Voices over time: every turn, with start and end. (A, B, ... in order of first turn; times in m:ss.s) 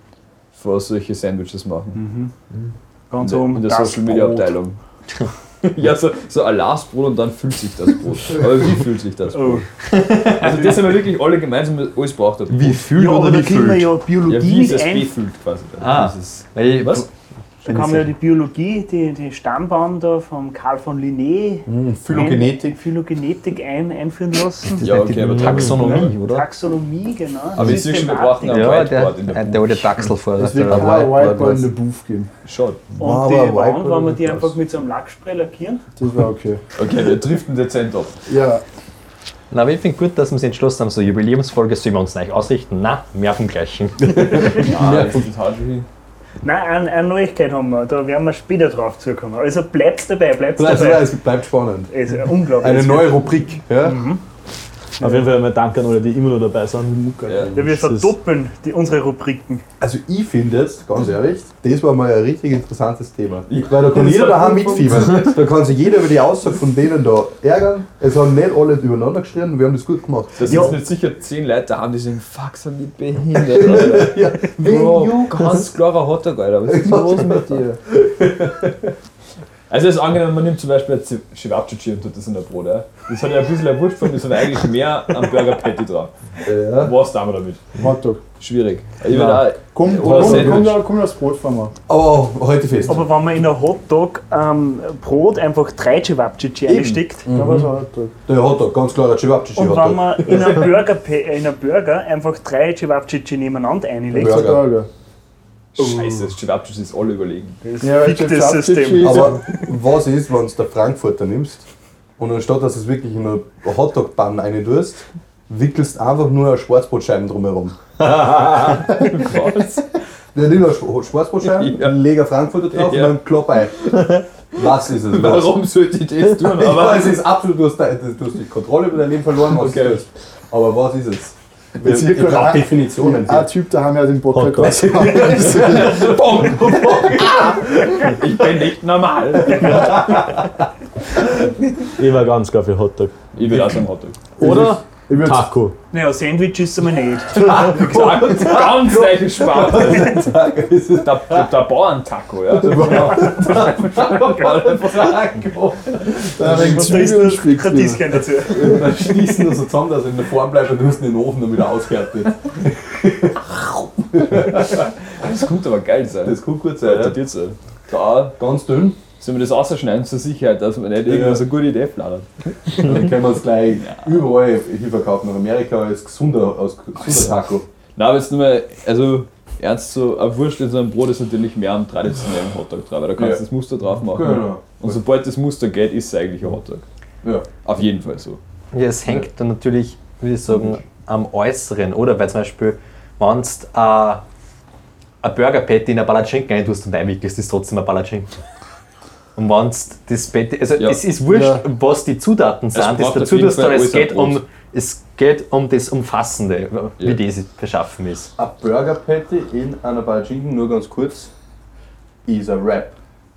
0:00.5-0:02.0 A
0:02.0-0:02.3 B
0:03.1-0:04.6 B
0:03.2-0:04.8 A
0:05.6-0:09.7 A
0:09.3-0:09.7 B
0:09.9-0:10.7 C
0:10.3-0:12.9 A
0:12.5-0:13.9 C
0:12.9-0:15.1 B
0:14.3-0:17.1 A
0:15.8-0:17.1 C
0:17.6-0:24.9 B
0:17.7-0:18.0 D
0:21.7-0:22.8 D
0:24.8-0:26.5 C
0:24.8-0:26.1 A
0:25.7-0:28.8 B
0:27.6-0:30.1 A
0:28.5-0:31.2 C
0:30.4-0:32.3 E
0:30.6-0:31.7 D
0:32.4-0:32.8 A
0:33.0-0:34.5 D
0:33.0-0:35.8 B
0:36.0-0:36.6 E
0:36.8-0:38.2 A
0:38.3-0:38.6 E
0:39.5-0:44.2 C
0:44.2-0:45.2 D
0:44.4-0:45.9 A
0:46.4-0:51.2 B
0:50.6-0:51.9 D
0:51.9-0:54.2 B
0:52.6-0:54.0 D
0:55.0-0:58.2 F
0:57.1-0:57.5 E
0:57.3-0:57.5 A
0:57.5-0:59.6 B
0:59.8-1:10.8 D
1:03.5-1:05.4 A
1:10.4-1:17.6 A
1:13.4-1:15.7 D
1:16.7-1:18.9 D
1:19.7-1:26.1 A
1:26.4-1:27.0 D
1:26.7-1:27.8 A
1:27.8-1:28.2 E
1:28.4-1:30.8 A
1:29.1-1:31.7 E
1:29.9-1:30.8 D
1:31.9-1:33.0 D
1:32.9-1:37.3 B
1:36.7-1:37.7 D
1:37.3-1:38.1 E
1:38.3-1:40.6 D
1:39.6-1:44.6 B
1:44.1-1:44.9 E
1:44.2-1:44.7 D
1:45.8-1:47.6 A
1:47.6-1:49.5 B
1:47.8-1:49.4 E
1:49.0-1:51.7 D
1:52.2-1:57.8 D
1:58.2-1:59.9 A
2:00.3-2:05.6 D
2:01.4-2:02.0 A
2:02.7-2:03.2 A
2:03.9-2:04.2 A
2:05.0-2:07.2 A
2:06.4-2:13.5 D
2:09.5-2:10.0 A
2:11.8-2:16.1 E
2:14.3-2:14.9 F
2:14.6-2:18.1 D
2:15.0-2:20.2 A
2:19.5-2:20.4 D
2:22.0-2:23.2 F
2:23.3-2:24.2 A
2:24.4-2:25.8 F
2:24.4-2:25.5 D
2:25.9-2:27.5 B
2:27.4-2:31.5 D
2:27.4-2:30.3 A
2:31.0-2:35.4 A
2:32.6-2:37.1 D
2:36.4-2:38.2 E
2:36.5-2:38.9 B
2:38.5-2:44.9 D
2:45.1-2:48.4 A
2:46.2-2:47.2 D
2:48.4-2:49.0 D
2:49.2-2:52.3 A
2:51.0-2:51.4 D
2:52.8-2:57.7 D
2:53.8-2:54.2 A
2:58.0-3:06.9 A
3:03.2-3:03.4 D
3:04.1-3:05.0 D
3:07.6-3:08.4 A
3:08.7-3:14.2 C
3:15.2-3:18.3 C
3:19.4-3:28.3 C
3:21.3-3:21.6 E
3:22.7-3:24.4 A
3:28.4-3:31.3 D
3:32.3-3:33.0 D